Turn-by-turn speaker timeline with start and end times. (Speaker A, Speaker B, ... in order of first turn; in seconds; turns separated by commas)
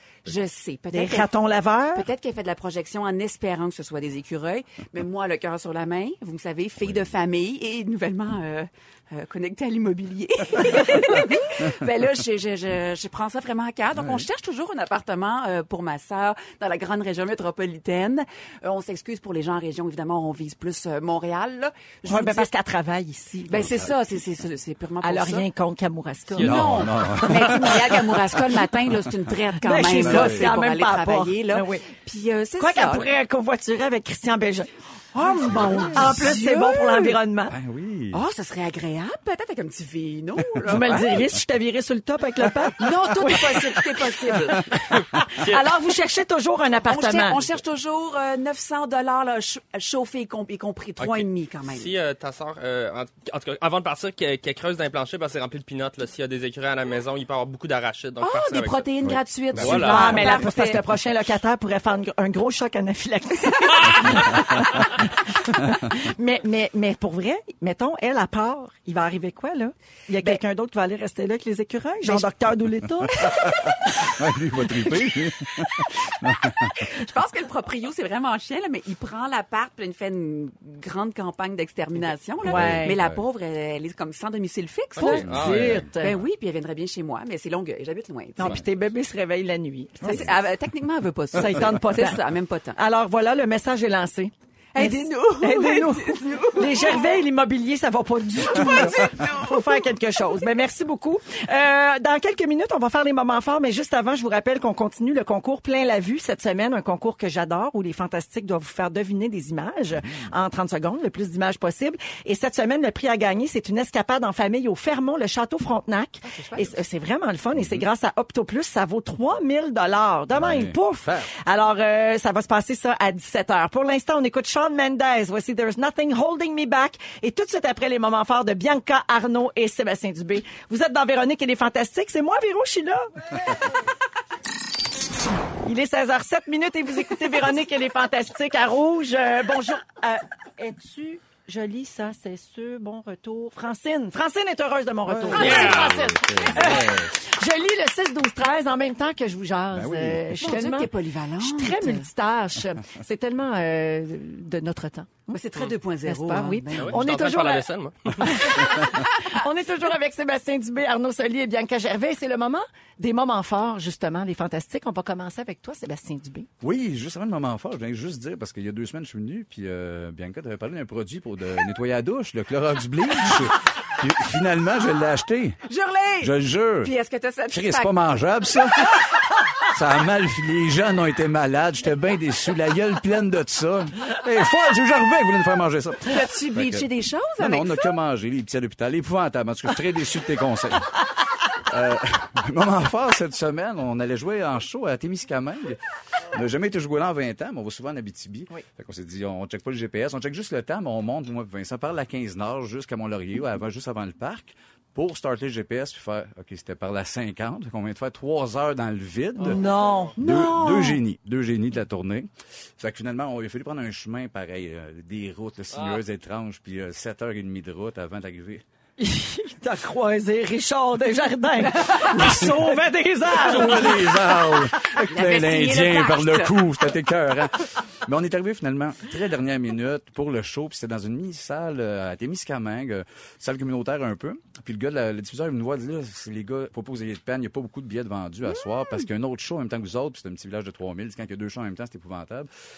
Speaker A: 0.2-1.3, Speaker B: 0.9-2.1, Speaker A: 1.9-22.5, Speaker C: 13.9-14.2, Speaker B: 22.1-23.7, Speaker A: 23.5-25.5, Speaker C: 23.5-23.9, Speaker B: 25.0-26.7, Speaker D: 26.3-27.1, Speaker A: 26.4-33.1, Speaker C: 26.4-29.1, Speaker B: 29.6-31.9, Speaker C: 29.9-30.5, Speaker B: 32.6-37.5, Speaker A: 35.1-37.2, Speaker C: 35.4-36.2, Speaker C: 37.5-38.2, Speaker A: 38.1-41.1, Speaker C: 40.6-41.4, Speaker B: 40.6-47.4, Speaker A: 42.8-44.7, Speaker D: 44.9-45.6, Speaker A: 46.9-51.9, Speaker D: 51.0-58.9, Speaker A: 58.2-60.8, Speaker C: 59.0-60.2, Speaker D: 59.5-60.4, Speaker B: 59.7-73.7, Speaker C: 72.1-76.8, Speaker A: 76.5-85.3, Speaker C: 82.4-83.2, Speaker B: 82.4-83.0, Speaker B: 85.0-86.2, Speaker D: 85.0-85.8, Speaker C: 85.0-85.9, Speaker A: 85.9-88.6, Speaker B: 88.4-90.3, Speaker C: 90.0-90.3, Speaker A: 90.0-92.8, Speaker B: 91.3-92.2, Speaker B: 92.7-133.1, Speaker A: 94.7-97.1, Speaker A: 98.5-99.8, Speaker C: 110.0-110.3, Speaker A: 116.2-116.8, Speaker C: 117.5-117.8, Speaker C: 120.3-121.3, Speaker B: 135.6-155.4, Speaker C: 145.1-147.1, Speaker D: 145.3-146.0, Speaker A: 145.4-145.7, Speaker C: 149.7-150.5, Speaker A: 150.4-152.1, Speaker A: 155.3-157.1, Speaker B: 156.0-157.6, Speaker D: 156.8-158.5, Speaker B: 158.2-166.5, Speaker C: 166.6-175.6, Speaker A: 175.7-178.0, Speaker C: 176.2-176.9, Speaker C: 177.5-178.9, Speaker C: 179.7-186.9, Speaker A: 186.0-187.9, Speaker C: 187.4-190.9, Speaker C: 191.7-195.8, Speaker C: 196.3-209.6, Speaker D: 209.4-209.8, Speaker B: 209.4-210.9, Speaker C: 210.2-218.6, Speaker A: 210.2-210.9, Speaker D: 215.7-216.0, Speaker B: 219.0-224.2, Speaker C: 223.3-242.5, Speaker A: 224.9-226.6